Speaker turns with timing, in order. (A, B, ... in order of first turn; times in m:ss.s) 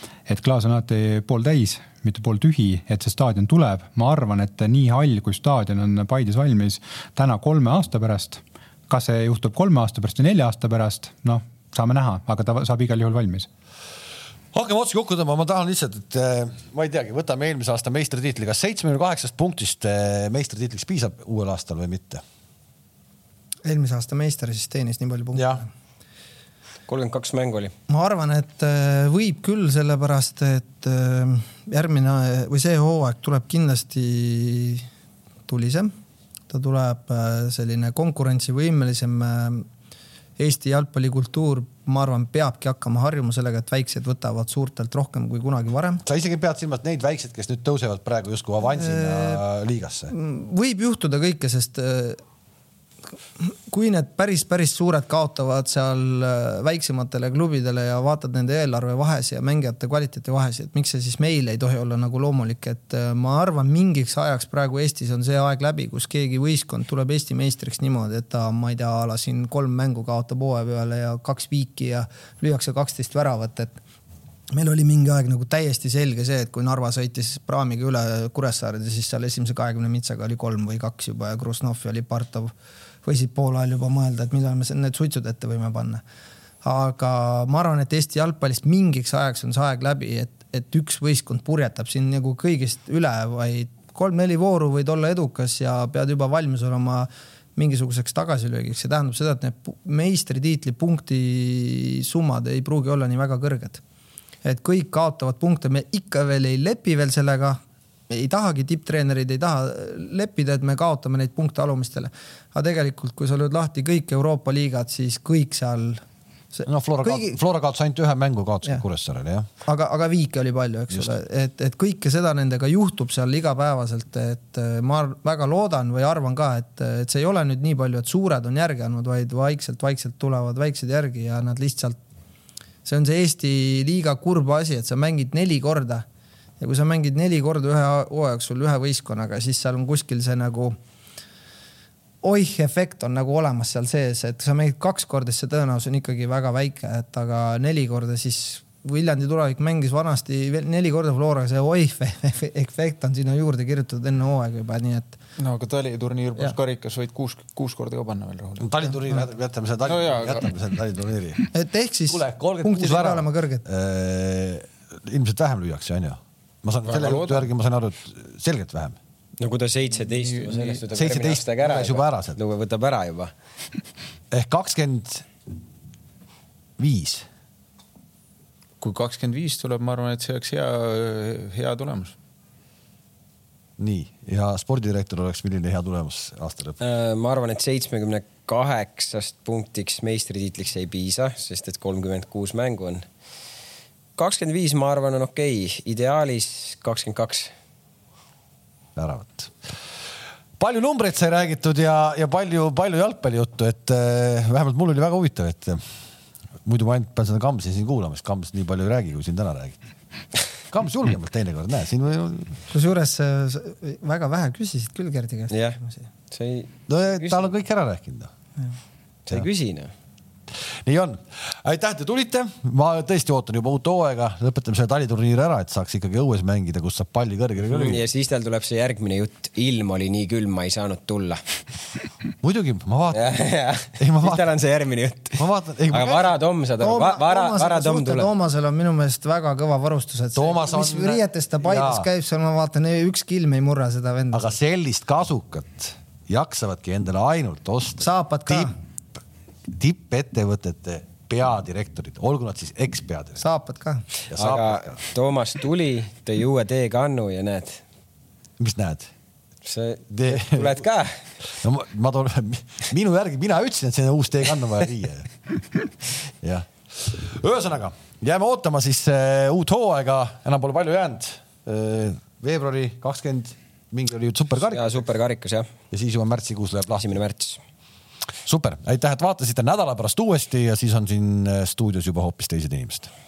0:00.3-0:13.5 A
0:14.5-0:22.2 B
0:23.6-0:25.7 C
0:25.4-0:25.6 B
0:26.9-0:27.7 D
0:27.9-0:34.9 C
0:35.5-0:35.9 C
0:36.5-0:39.7 C
0:40.4-0:46.0 C
0:46.0-0:50.1 B
0:48.7-0:49.4 C
0:50.1-0:52.2 C
0:53.4-1:13.8 C
1:14.5-1:22.5 C
1:23.0-1:26.0 C
1:26.6-1:43.8 C
1:44.4-1:47.6 C
1:48.1-1:57.4 C
1:56.7-1:59.5 B
1:59.7-2:12.0 C
2:12.8-2:16.0 C
2:16.6-2:20.8 C
2:22.2-2:35.2 C
2:35.4-2:38.8 E
2:38.6-2:41.5 B
2:39.9-2:40.5 E
2:41.5-2:43.6 C
2:42.1-2:49.0 B
2:46.9-2:47.5 E
2:49.4-2:53.3 D
2:50.1-2:50.8 E
2:50.9-2:52.4 B
2:54.3-2:55.3 B
2:56.8-2:57.3 B
2:58.8-3:02.2 E
3:03.8-3:06.8 B
3:06.8-3:13.0 D
3:14.2-3:17.5 D
3:19.0-3:19.7 B
3:20.6-3:25.9 B
3:26.6-3:29.8 B
3:30.7-3:32.6 B
3:32.7-3:36.0 C
3:35.5-3:35.8 D
3:36.3-3:37.5 D
3:36.9-3:38.3 B
3:39.3-3:39.9 D
3:40.5-3:48.0 B
3:47.6-3:51.4 D
3:52.4-3:53.4 B
3:53.1-3:58.3 D
3:53.9-3:54.5 B
3:55.4-3:56.3 B
3:56.8-4:04.6 C
4:00.4-4:02.1 B
4:04.3-4:08.7 B
4:08.0-4:08.7 C
4:09.7-4:13.4 B
4:13.4-4:14.0 C
4:14.3-4:15.0 B
4:14.4-4:17.8 D
4:18.6-4:19.1 B
4:19.6-4:21.2 D
4:20.1-4:20.8 B
4:21.5-4:25.3 B
4:26.4-4:35.0 B
4:34.7-4:35.7 D
4:35.9-4:37.1 B
4:37.0-4:37.6 D
4:38.4-4:43.1 B